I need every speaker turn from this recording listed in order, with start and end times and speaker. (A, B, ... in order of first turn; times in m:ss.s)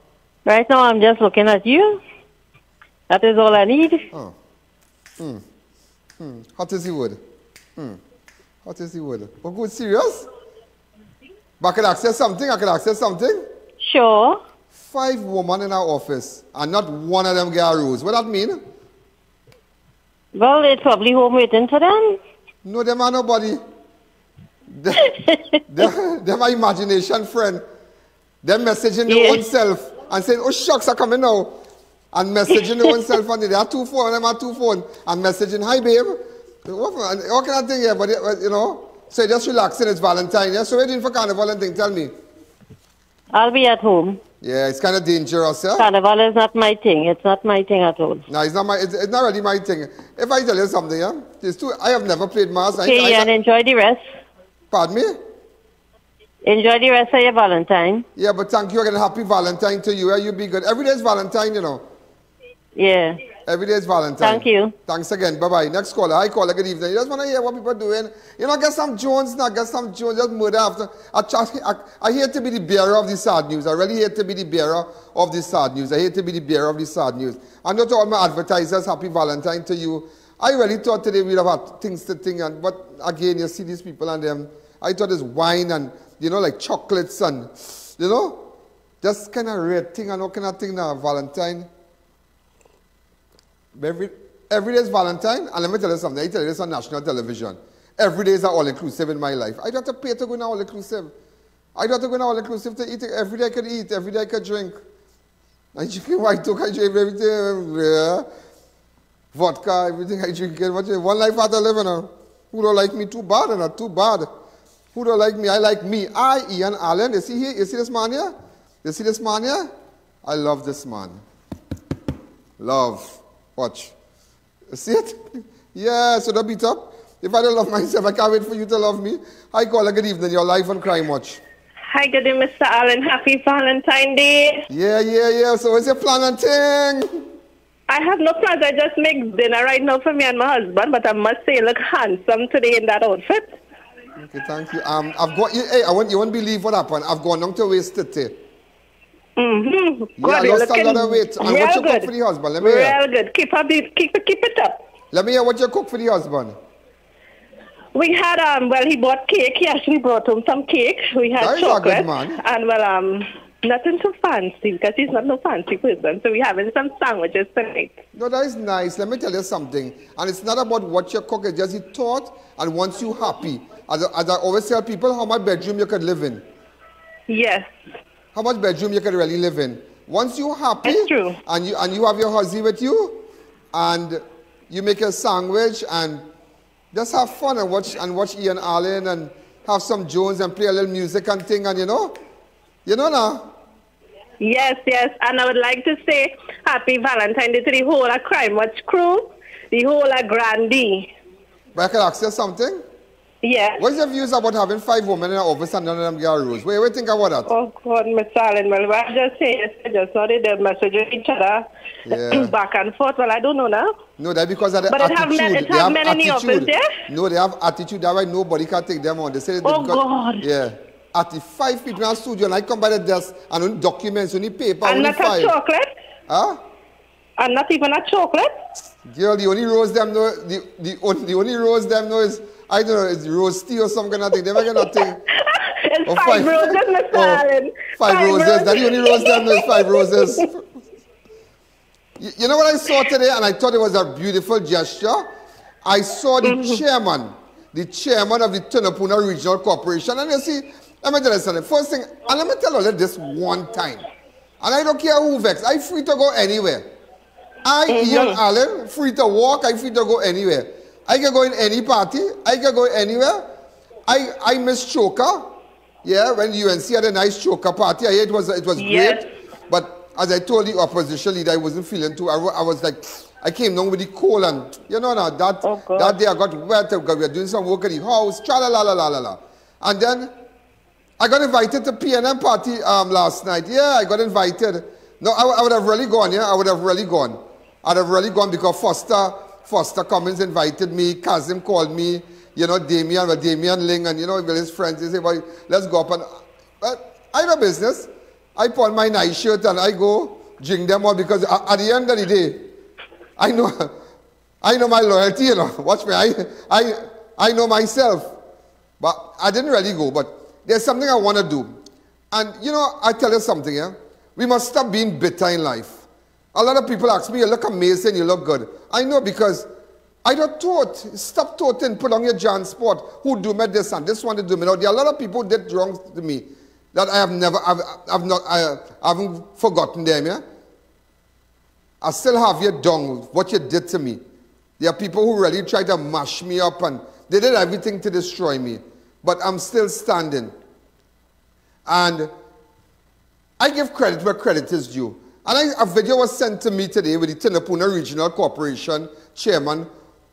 0:00.5-0:02.0 A
0:03.1-0:04.0 A
0:06.2-0:07.2 B
0:08.6-0:10.3 B
0:11.6-0:13.4 B
0:13.8-0:14.4 A
0:14.9-0:18.6 B
0:20.4-0:22.2 A
0:22.6-0:23.6 B
0:24.7-0:25.2 B
0:25.7-0:27.6 B
0:28.4-0:31.6 B
0:29.1-0:29.4 A
0:32.1-0:42.1 B
0:43.3-0:44.2 A
0:44.4-0:45.9 B
0:45.8-0:48.2 A
0:48.3-0:53.3 B
0:52.8-0:54.0 A
0:54.7-0:55.2 B
0:56.4-0:58.1 A
0:58.2-1:01.8 B
1:02.8-1:03.2 A
1:03.4-1:28.4 B
1:04.2-1:04.7 A
1:29.0-1:31.7 B
1:33.8-1:41.1 B
1:41.8-1:44.8 B
1:45.7-1:48.3 B
1:49.3-1:54.3 B
1:54.9-1:58.3 B
1:58.8-1:59.7 B
2:00.2-2:01.2 B
2:02.6-2:03.9 B
2:04.7-2:05.2 B
2:05.7-2:11.4 B
2:11.9-2:14.6 C
2:14.7-2:17.1 B
2:17.9-2:23.5 C
2:24.2-2:28.3 B
2:29.4-2:32.1 C
2:30.2-2:33.0 B
2:32.6-2:34.8 C
2:35.1-2:36.6 B
2:38.0-2:48.0 C
2:41.4-2:42.4 B
2:48.2-2:56.4 B
2:57.3-2:57.7 C
2:58.3-3:03.2 B
3:00.8-3:01.4 C
3:03.7-3:06.2 B
3:06.9-3:12.1 B
3:12.9-3:13.5 B
3:14.4-3:21.1 C
3:21.8-3:22.8 B
3:23.4-3:23.8 C
3:23.8-3:27.5 B
3:27.5-3:33.9 C
3:32.1-3:32.6 B
3:34.2-3:45.5 B
3:34.9-3:37.0 C
3:39.6-3:40.4 C
3:44.8-3:45.9 C
3:46.3-3:46.6 B
3:47.4-3:48.5 C
3:49.1-3:55.2 B
3:54.6-4:00.4 C
3:56.0-3:57.4 B
3:58.0-4:00.7 B
4:02.2-4:05.3 B
4:05.8-4:14.1 B
4:06.4-4:06.8 C
4:14.6-4:16.9 B
4:17.6-4:23.4 B
4:17.9-4:18.4 C
4:24.1-4:25.4 B
4:26.0-4:40.3 B
4:28.8-4:29.3 C
4:35.6-4:36.2 C
4:41.2-4:56.3 B
4:56.8-5:02.6 B
5:03.4-5:03.9 B
5:04.6-5:08.3 B
5:09.0-5:11.7 B
5:12.3-5:16.0 B
5:16.5-5:19.7 B
5:20.2-5:30.4 B
5:32.0-5:34.2 B
5:34.8-5:40.5 B
5:41.9-5:42.3 B
5:43.6-5:49.9 B